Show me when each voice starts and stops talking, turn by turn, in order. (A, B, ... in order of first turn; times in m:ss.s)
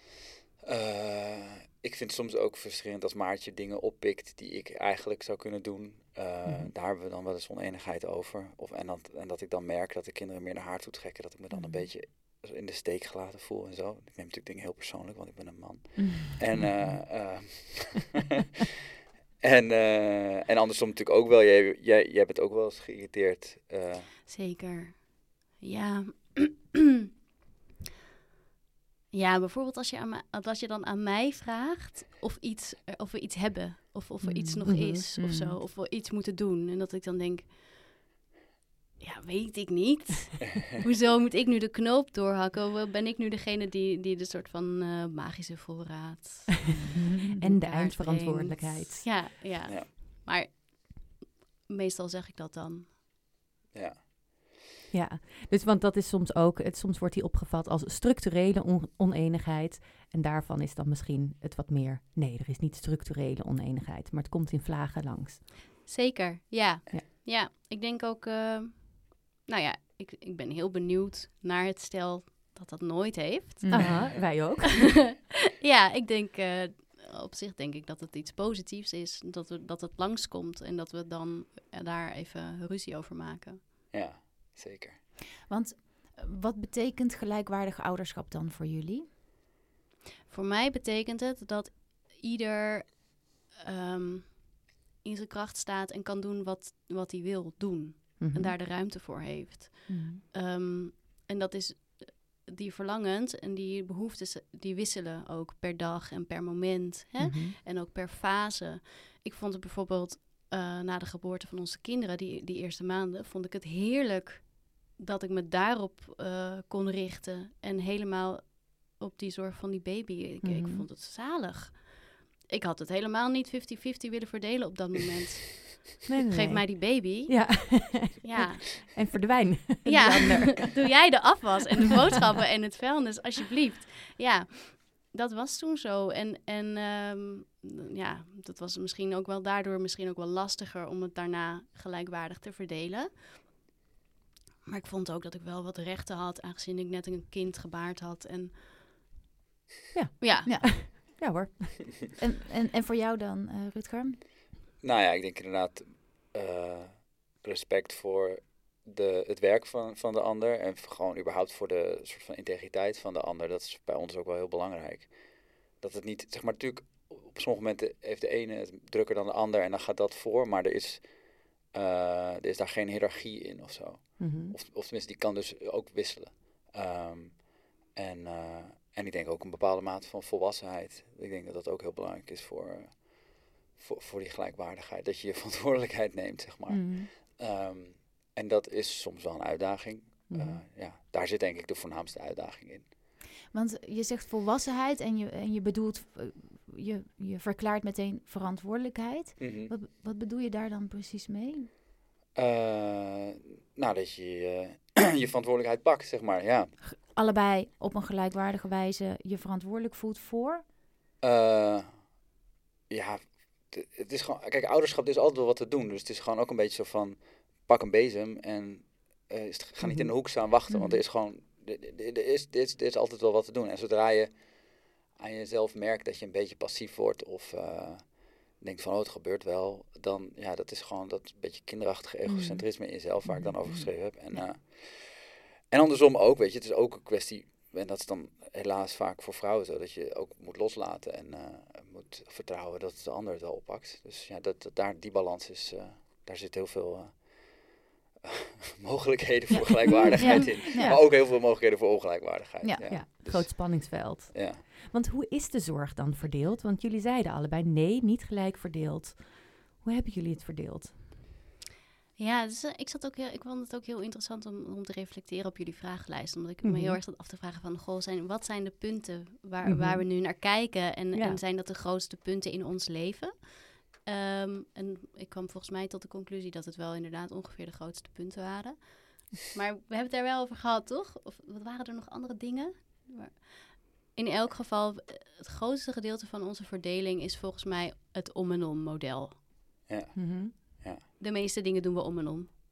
0:00.6-0:18.2 A
0:11.5-0:11.9 B
0:19.4-0:24.1 A
0:24.3-0:26.9 C
0:29.1-0:37.9 C
0:34.2-0:34.6 B
0:34.6-0:35.1 D
0:35.2-0:35.6 B
0:39.0-0:53.0 C
0:47.4-0:49.1 D
0:53.7-0:54.5 A
0:54.9-1:05.4 D
1:05.8-1:14.0 C
1:13.6-1:14.0 B
1:13.7-1:15.1 D
1:14.8-1:23.6 C
1:23.9-1:25.0 A
1:25.5-1:29.1 B
1:30.3-2:09.2 C
1:38.2-1:38.6 D
1:39.9-1:40.2 B
1:47.2-1:47.6 D
2:00.4-2:00.9 D
2:06.1-2:10.8 D
2:09.8-2:23.5 C
2:24.7-2:28.6 C
2:29.9-2:31.9 D
2:30.2-2:30.8 C
2:30.4-2:30.8 B
2:32.2-2:34.2 B
2:34.8-3:12.9 A
2:54.2-2:54.6 D
3:06.7-3:07.1 D
3:10.3-3:10.6 D
3:13.5-3:21.7 B
3:19.4-3:19.7 A
3:22.4-3:26.8 A
3:26.8-3:30.6 B
3:31.2-3:32.2 A
3:32.9-4:14.6 A
3:39.8-3:40.1 D
3:40.7-3:41.0 B
3:52.3-3:52.6 B
3:53.3-3:54.5 B
4:10.1-4:11.0 B
4:10.2-4:10.4 C
4:12.6-4:12.9 B
4:12.9-4:21.0 D
4:22.2-4:49.4 C
4:26.6-4:27.0 D
4:29.6-4:30.1 D
4:31.1-4:31.4 D
4:49.9-4:51.0 A
4:50.2-4:50.6 D
4:51.2-4:52.5 C